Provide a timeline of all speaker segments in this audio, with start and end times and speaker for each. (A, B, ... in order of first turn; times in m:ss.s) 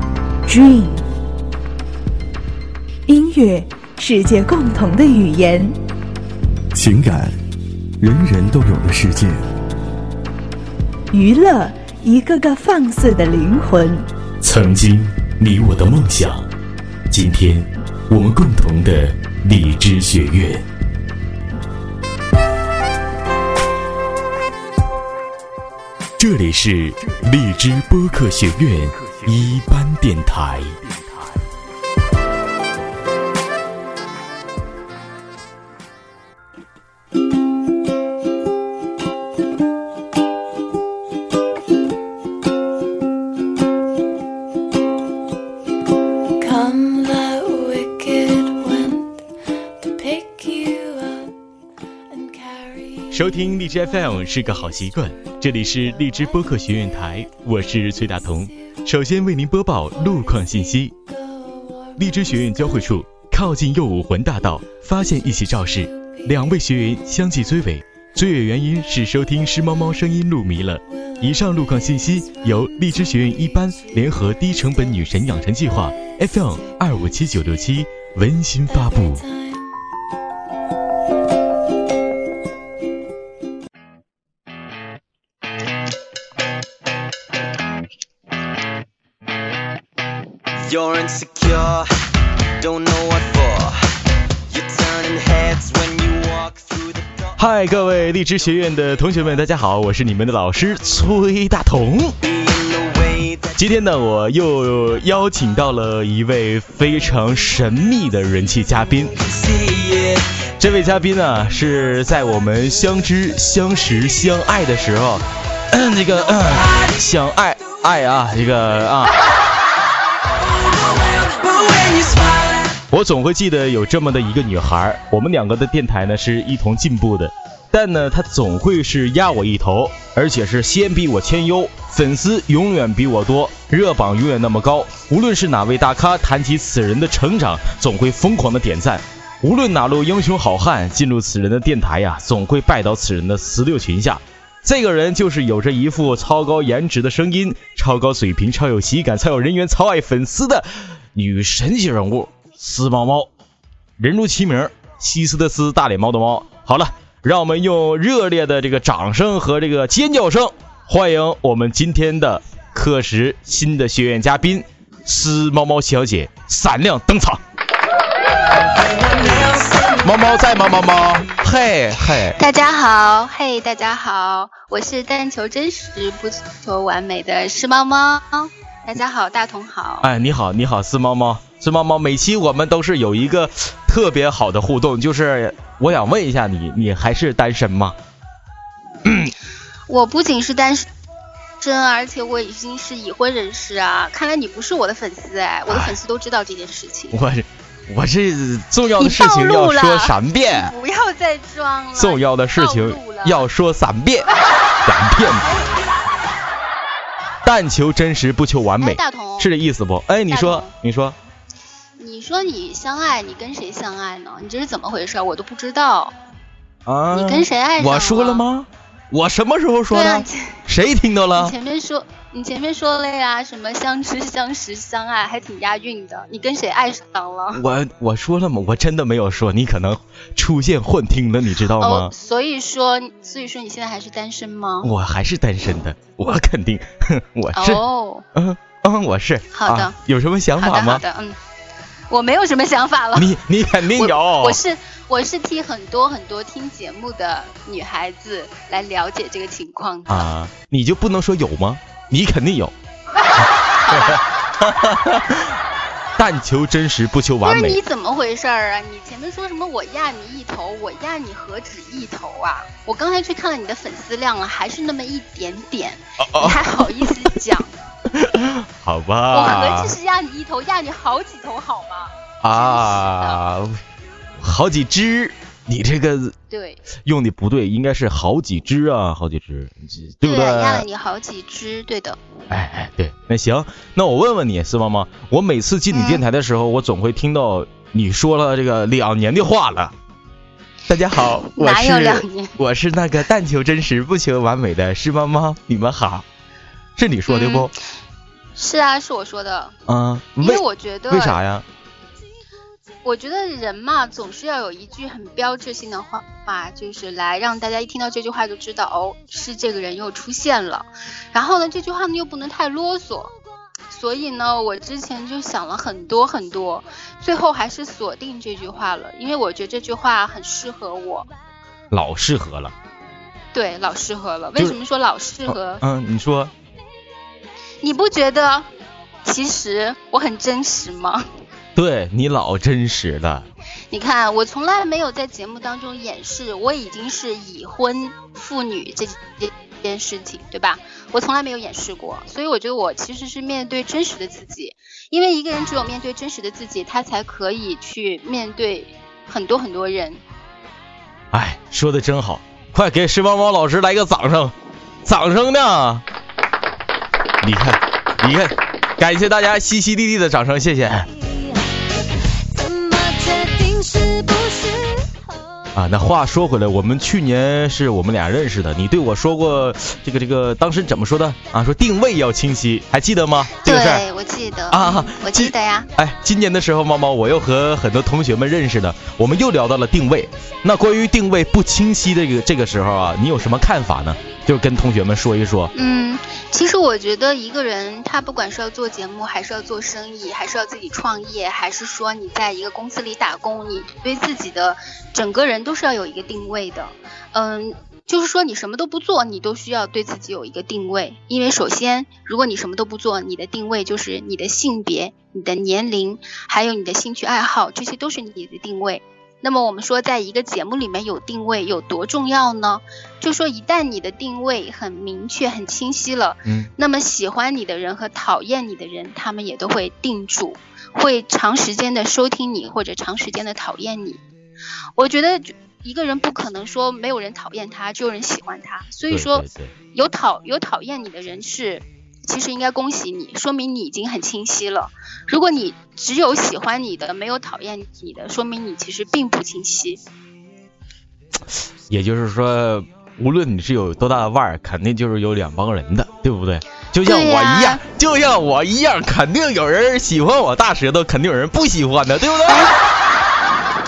0:00.5-0:01.0 A
0:03.1-0:05.8 A
0:06.7-0:07.4 B
0:08.0-0:09.5 B
0:11.1-0:14.0 A
0:14.4-0:16.5 C
0:17.1-0:20.7 C
0:26.2-0:31.4 C
0:46.4-0:47.6 D
0:46.9-0:48.8 E
0:48.2-0:48.9 D
0:50.1-0:50.8 E
0:50.2-0:51.1 D
0:53.1-1:01.0 C
1:02.0-1:19.4 C
1:30.7-1:31.9 F
1:32.6-1:33.9 F
1:34.5-1:37.4 F
1:37.4-1:42.2 C
1:42.2-1:43.6 F
1:43.6-1:59.2 C
1:49.7-1:50.2 F
2:01.5-2:33.3 C
2:34.0-2:47.4 C
2:49.1-2:52.4 C
2:52.4-3:00.1 G
3:00.0-3:08.0 C
3:09.0-3:09.3 C
3:09.9-3:10.9 G
3:11.6-3:17.2 G
3:15.7-3:16.0 C
3:17.1-3:20.7 C
3:19.0-3:23.5 G
3:22.0-3:24.3 C
3:24.8-3:25.5 C
3:27.4-3:31.2 C
3:28.8-3:29.5 G
3:30.3-3:30.7 G
3:32.0-3:36.2 G
3:36.9-3:41.6 C
3:37.1-3:38.4 G
3:39.9-3:40.6 G
3:41.4-3:47.6 G
3:47.5-3:52.1 C
3:51.8-3:54.9 G
3:54.8-4:01.0 C
3:57.5-3:58.3 G
3:59.5-4:00.0 G
4:00.6-4:01.4 G
4:02.1-4:10.3 G
4:03.2-4:04.6 C
4:10.1-4:12.7 C
4:13.8-4:14.3 G
4:13.8-4:15.6 C
4:16.2-4:17.8 C
4:17.4-4:27.8 G
4:26.2-4:26.7 C
4:28.1-4:30.0 C
4:29.3-4:33.4 G
4:32.4-4:33.8 C
4:34.4-4:36.4 C
4:36.5-4:36.8 G
4:37.0-4:40.9 C
4:40.2-4:42.2 G
4:42.5-4:49.9 C
4:45.9-4:46.2 G
4:50.9-4:56.3 C
4:51.2-4:52.6 G
4:57.0-4:57.7 C
4:57.3-4:57.7 G
4:58.6-4:59.8 G
4:59.9-5:01.6 C
5:00.4-5:01.4 G
5:03.0-5:13.3 G
5:13.9-5:21.3 G
5:21.9-5:22.7 C
5:23.5-5:25.8 G
5:25.5-5:26.5 C
5:27.8-5:28.7 G
5:29.2-5:31.2 G
5:31.8-5:33.5 C
5:33.9-5:50.2 G
5:51.3-5:56.0 C
5:57.4-6:01.1 C
6:01.3-6:01.8 D
6:02.4-6:05.1 D
6:05.8-6:14.0 C
6:13.6-6:15.9 G
6:14.7-6:25.7 C
6:25.7-7:04.2 G
7:05.0-7:20.0 G
7:09.1-7:09.7 C
7:21.9-7:32.7 C
7:27.0-7:27.8 G
7:32.5-7:32.8 G